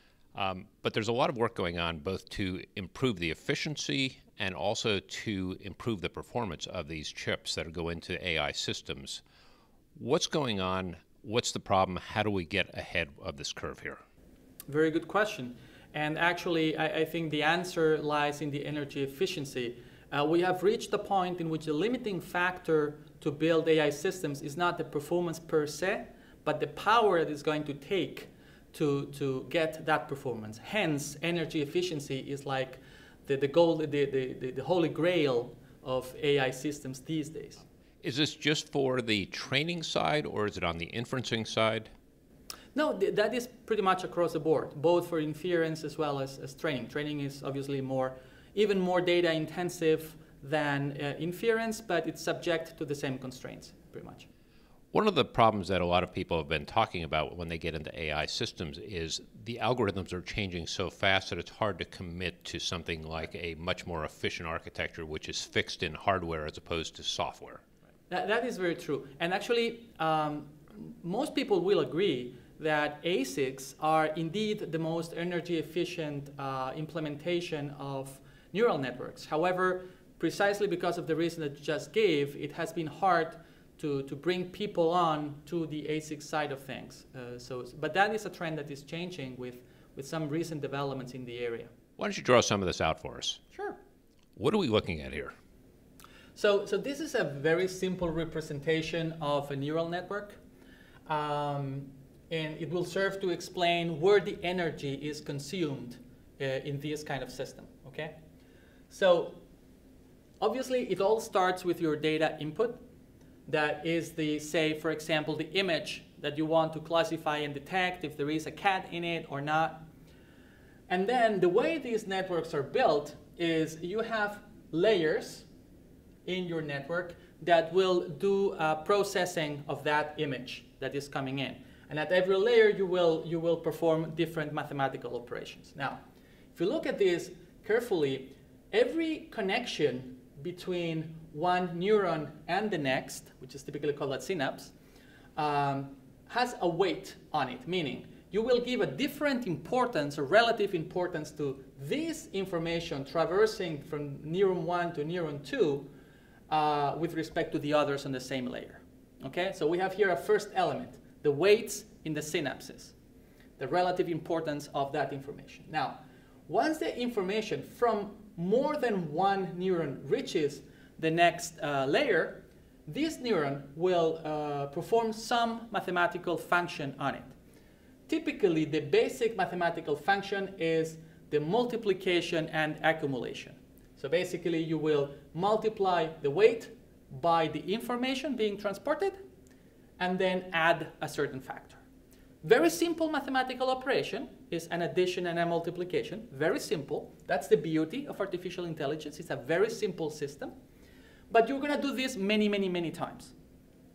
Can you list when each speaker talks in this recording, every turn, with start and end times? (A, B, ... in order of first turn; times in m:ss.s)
0:00.4-0:09.2 A
0:10.0-0:14.0 A
0:14.7-0:37.6 B
0:38.0-0:41.9 A
0:42.7-0:54.3 B
0:54.9-1:07.6 A
1:08.1-1:31.7 B
1:32.0-1:33.4 A
1:33.5-1:33.8 B
1:34.4-1:35.3 A
1:36.4-1:40.4 B
1:41.1-1:48.2 B
1:48.9-1:49.4 B
1:50.4-1:52.8 B
1:53.5-1:59.9 B
2:00.9-2:05.5 B
2:06.2-2:16.0 B
2:16.6-2:24.7 B
2:25.4-2:35.9 B
2:36.5-2:43.0 B
2:43.6-2:57.4 B
2:58.1-3:09.2 B
3:10.0-3:11.8 B
3:12.4-3:20.5 B
3:21.3-3:23.3 B